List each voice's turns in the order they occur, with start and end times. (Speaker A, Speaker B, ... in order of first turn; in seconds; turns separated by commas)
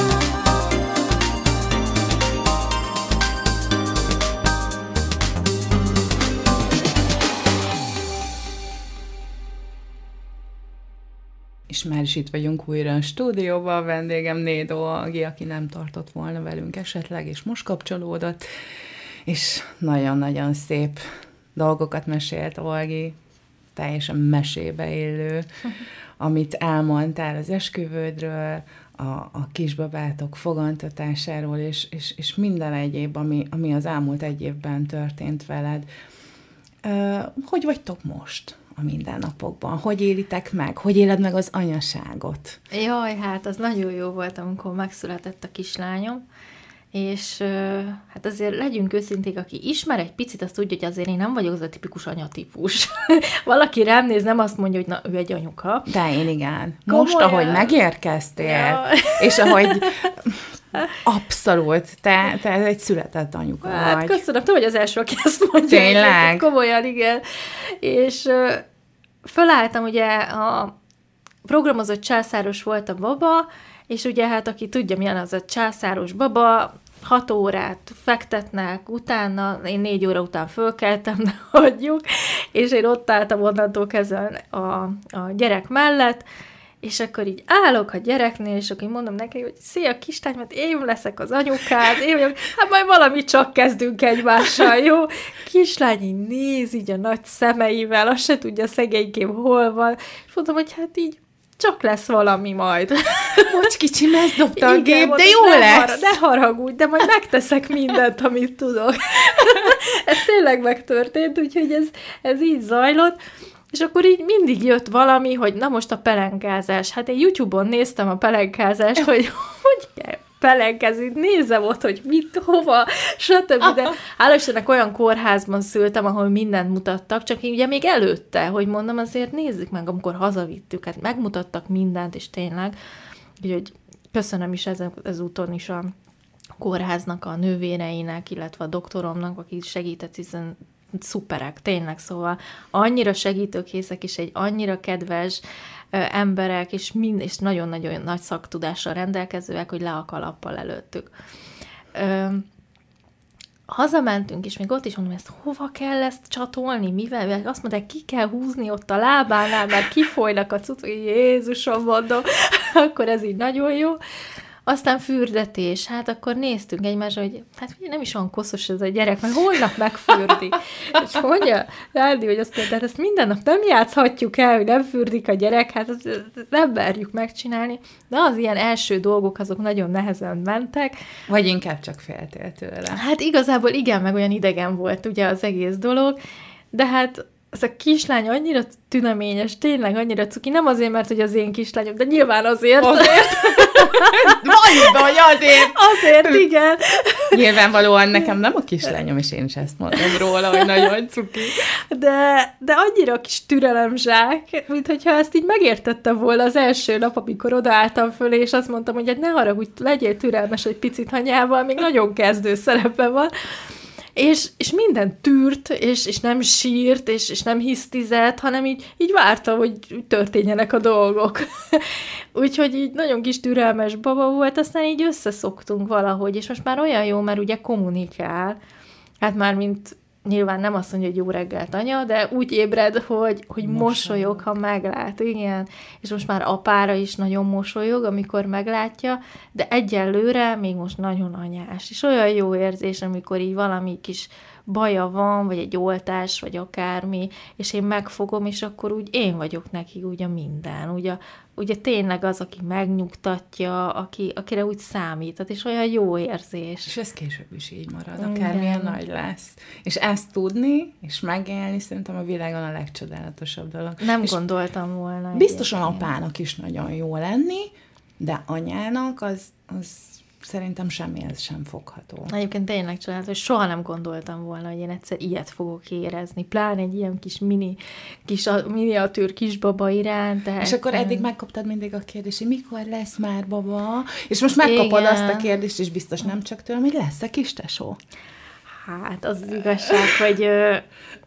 Speaker A: 11.7-18.6, Speaker A: 19.2-23.2, Speaker A: 23.7-25.5, Speaker A: 26.2-35.9, Speaker A: 36.8-42.6, Speaker B: 42.7-46.2, Speaker B: 46.9-55.9, Speaker A: 55.9-64.2, Speaker B: 56.9-57.7, Speaker B: 58.4-60.0, Speaker B: 63.6-68.6, Speaker A: 65.6-66.5, Speaker B: 69.2-70.7, Speaker B: 71.4-86.2, Speaker B: 86.8-103.7, Speaker A: 103.3-106.2, Speaker B: 104.5-113.2, Speaker B: 113.7-132.8, Speaker B: 133.4-135.9, Speaker B: 136.6-151.1, Speaker B: 151.9-152.5, Speaker B: 153.7-164.0, Speaker B: 164.7-180.9, Speaker A: 181.3-183.0, Speaker B: 182.9-186.2, Speaker B: 186.7-197.4, Speaker A: 192.8-196.4, Speaker A: 197.3-201.6, Speaker B: 201.7-213.3, Speaker B: 214.2-228.6, Speaker B: 229.2-256.9, Speaker A: 233.6-234.5, Speaker A: 256.8-264.4, Speaker B: 258.2-259.0, Speaker B: 264.0-266.1, Speaker A: 265.3-272.3, Speaker B: 272.3-281.3, Speaker A: 280.6-288.0, Speaker B: 284.6-285.5, Speaker B: 288.8-290.9